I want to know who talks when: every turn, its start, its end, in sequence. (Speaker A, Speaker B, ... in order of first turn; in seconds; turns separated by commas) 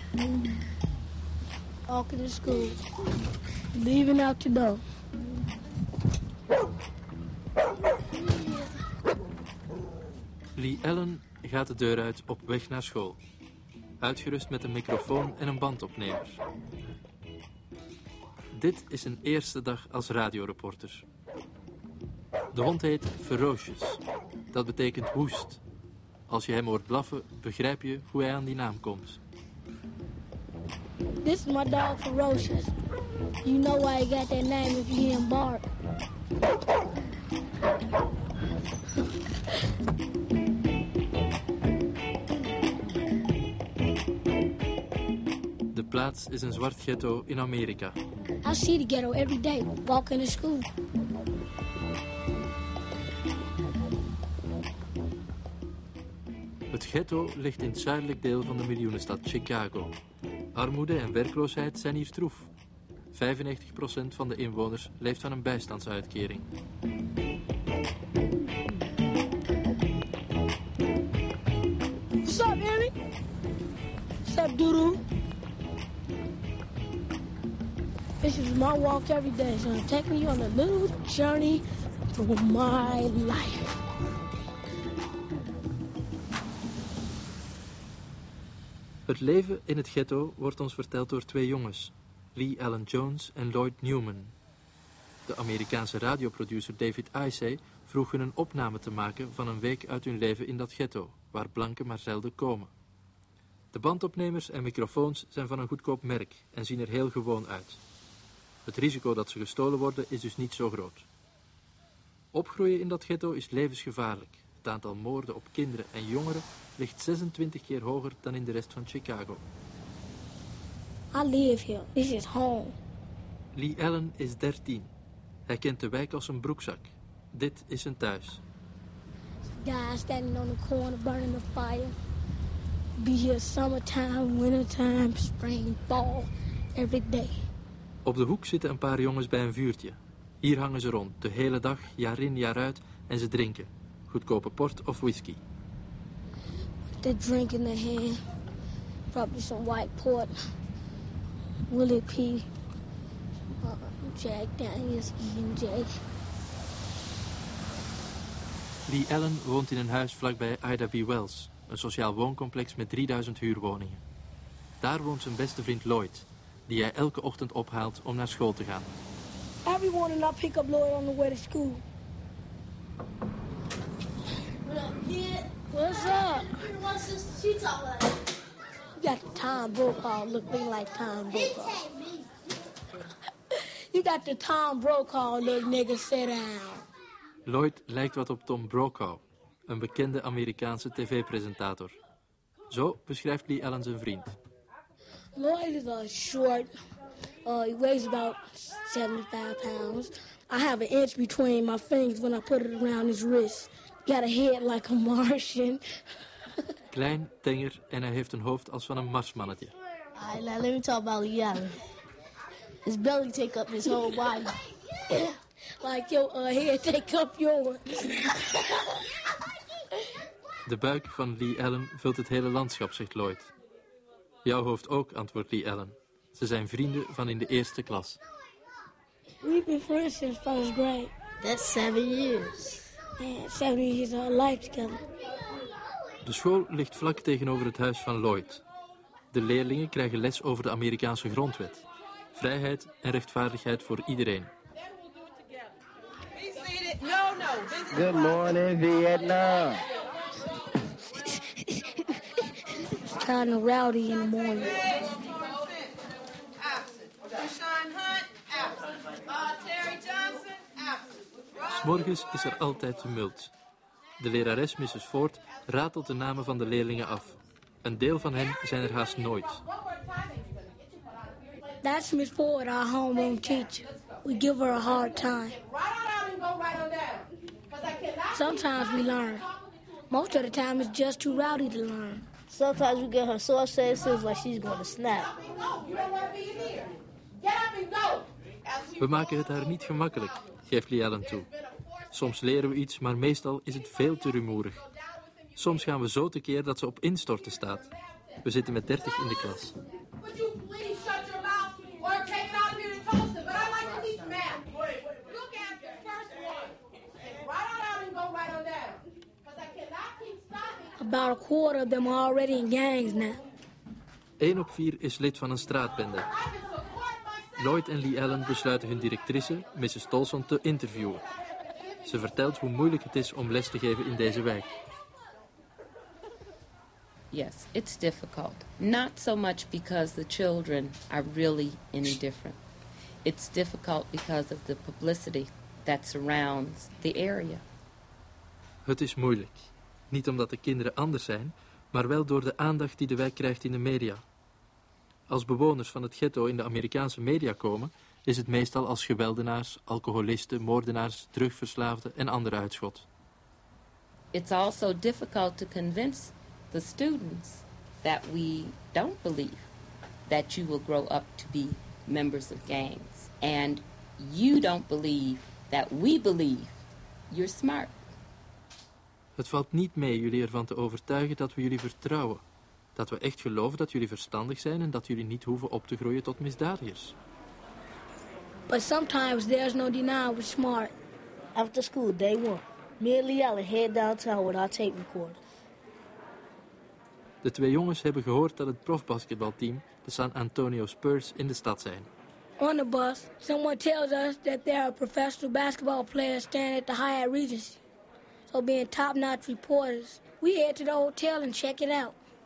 Speaker A: 1.9-2.8, Speaker A: 3.7-4.8, Speaker B: 10.6-13.2, Speaker B: 14.0-16.4, Speaker B: 18.5-21.0, Speaker B: 22.5-24.0, Speaker B: 24.5-25.6, Speaker B: 26.3-29.2, Speaker A: 31.2-32.7, Speaker A: 33.4-35.7, Speaker B: 45.7-48.0, Speaker A: 48.4-50.7, Speaker B: 56.7-60.0, Speaker B: 60.5-62.5, Speaker B: 63.1-66.5, Speaker A: 72.2-72.9, Speaker A: 74.2-75.0, Speaker A: 78.2-83.7, Speaker B: 89.1-94.3, Speaker B: 95.3-102.7, Speaker B: 103.7-107.8, Speaker B: 108.7-111.0, Speaker B: 112.3-119.4, Speaker A: 121.1-122.8, Speaker B: 123.5-124.9, Speaker B: 125.5-128.4, Speaker A: 129.4-131.9, Speaker A: 133.0-137.4, Speaker B: 138.0-145.4, Speaker A: 146.9-148.2, Speaker A: 149.1-150.3, Speaker A: 151.7-152.5, Speaker A: 153.6-155.9, Speaker B: 158.9-164.0, Speaker B: 164.8-168.9, Speaker A: 169.7-171.8, Speaker C: 174.6-178.2, Speaker A: 175.7-176.6, Speaker A: 179.0-181.8, Speaker A: 183.5-186.8, Speaker B: 187.4-191.9, Speaker B: 192.7-194.3, Speaker A: 195.3-196.7, Speaker A: 197.4-205.8, Speaker B: 206.9-209.7, Speaker C: 210.1-211.7, Speaker C: 212.8-214.5, Speaker A: 215.1-218.4, Speaker B: 220.7-223.5, Speaker B: 224.4-228.2, Speaker A: 229.4-231.1, Speaker C: 231.4-232.9, Speaker A: 233.2-235.1, Speaker B: 236.2-238.6, Speaker B: 239.3-244.5, Speaker D: 246.4-247.8, Speaker E: 247.9-249.8, Speaker A: 251.1-254.9, Speaker D: 255.3-255.6, Speaker D: 257.3-258.0, Speaker D: 259.5-260.4, Speaker B: 261.7-263.5, Speaker B: 264.2-269.6, Speaker A: 271.8-275.6, Speaker A: 278.3-279.5, Speaker A: 280.1-282.2, Speaker C: 282.5-285.4, Speaker D: 285.7-286.8, Speaker B: 289.0-291.5, Speaker B: 292.1-294.8, Speaker B: 295.6-297.9, Speaker B: 298.4-299.8, Speaker D: 300.5-304.6, Speaker D: 305.3-306.6, Speaker A: 311.0-313.4, Speaker B: 314.4-316.3, Speaker B: 317.6-321.2, Speaker B: 322.0-324.7, Speaker F: 327.3-332.6, Speaker F: 333.2-337.6, Speaker B: 338.8-344.2, Speaker B: 345.3-353.1, Speaker F: 354.3-359.7, Speaker F: 360.3-368.0, Speaker B: 369.4-372.4, Speaker B: 372.9-377.1, Speaker A: 378.7-380.9, Speaker C: 381.5-385.4, Speaker B: 387.4-392.1, Speaker A: 392.6-397.8, Speaker A: 398.5-402.2